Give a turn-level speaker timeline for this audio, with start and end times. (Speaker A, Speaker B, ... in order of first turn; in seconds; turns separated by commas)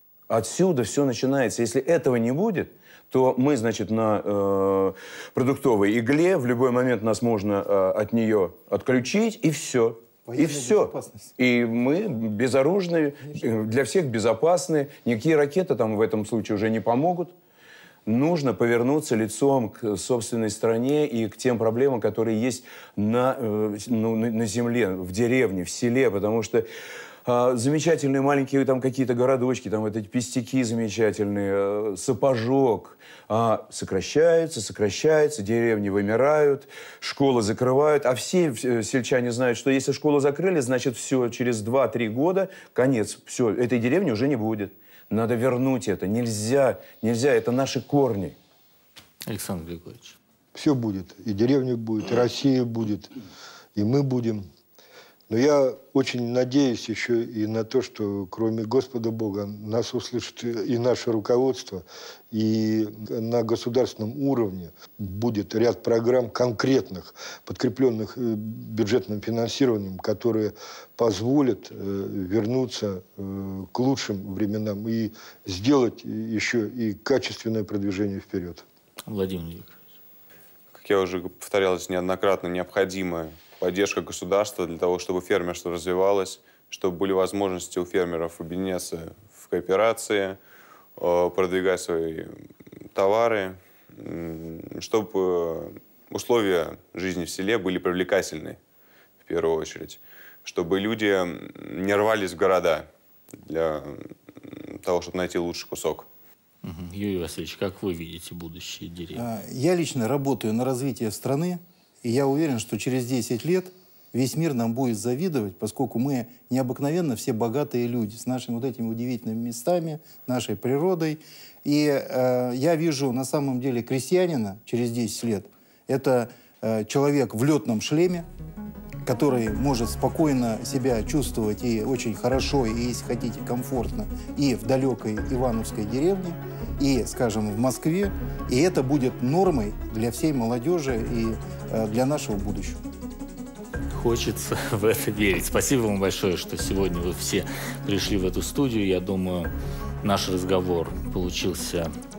Speaker A: 0.3-17.3, Speaker B: 10.2-11.3, Speaker A: 18.1-26.7, Speaker A: 27.2-48.3, Speaker C: 49.2-50.2, Speaker D: 50.5-53.1, Speaker D: 53.7-54.5, Speaker D: 55.3-78.6, Speaker C: 79.0-79.8, Speaker E: 80.7-90.4, Speaker E: 91.0-92.3, Speaker E: 92.9-98.6, Speaker E: 99.2-102.9, Speaker E: 103.4-106.0, Speaker C: 106.6-109.2, Speaker B: 109.1-128.3, Speaker B: 129.0-142.8, Speaker C: 143.9-149.5, Speaker C: 150.0-151.9